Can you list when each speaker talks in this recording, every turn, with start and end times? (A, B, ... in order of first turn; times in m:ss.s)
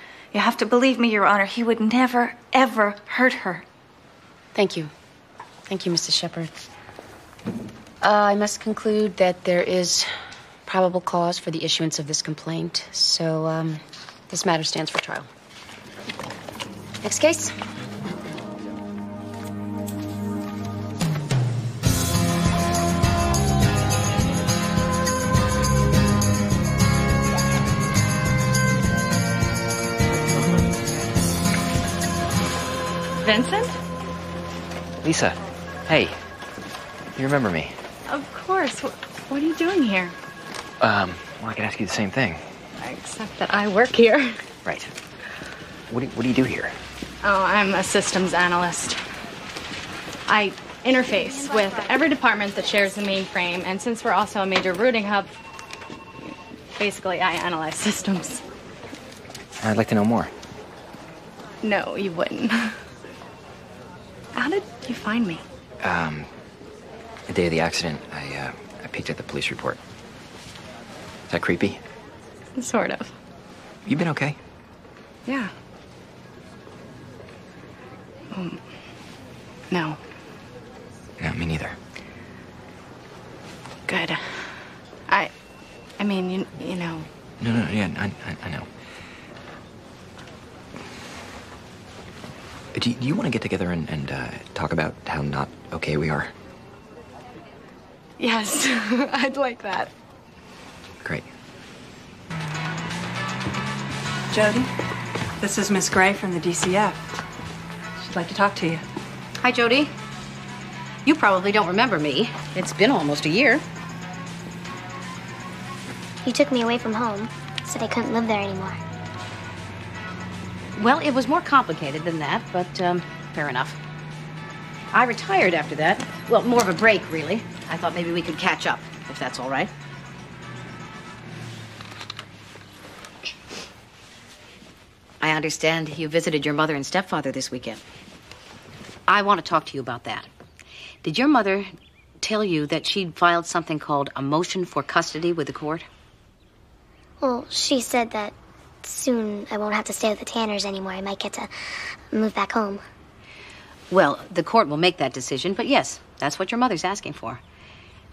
0:00.3-0:03.6 A
0:04.5-0:04.9 B
0:05.7-0:06.5 B
0:08.0-0:10.1 B
0:10.6-0:15.3 B
0:17.0-0:17.5 B
0:33.2-0:33.8 C
0:35.0-0:36.2 D
0:37.1-0:37.8 D
0:38.1-0:40.1 C
0:40.8-0:42.4 D
0:42.8-0:44.4 C
0:44.6-0:44.9 D
0:45.9-0:46.8 D
0:47.2-0:49.0 C
0:50.3-0:55.3 C
0:56.8-0:58.4 C
0:59.6-1:00.3 D
1:01.6-1:02.8 C
1:04.3-1:05.4 C
1:05.8-1:06.3 D
1:07.3-1:09.8 D
1:11.3-1:11.8 D
1:12.6-1:13.1 C
1:13.8-1:14.4 D
1:15.2-1:15.5 C
1:18.3-1:18.6 C
1:19.7-1:20.0 C
1:21.2-1:21.8 D
1:23.9-1:25.3 C
1:26.0-1:27.1 C
1:27.4-1:28.7 D
1:32.7-1:36.3 D
1:38.2-1:39.9 C
1:44.3-1:44.6 A
1:45.4-1:46.9 E
1:48.1-1:48.8 E
1:49.4-1:49.9 F
1:51.0-1:53.6 F
1:56.2-1:58.8 G
2:00.7-2:03.8 F
2:04.9-2:09.7 F
2:15.2-2:17.8 F
2:19.1-2:20.3 F
2:21.0-2:21.7 F
2:22.2-2:25.8 F
2:27.2-2:31.5 G
2:32.1-2:32.8 G
2:33.9-2:37.4 F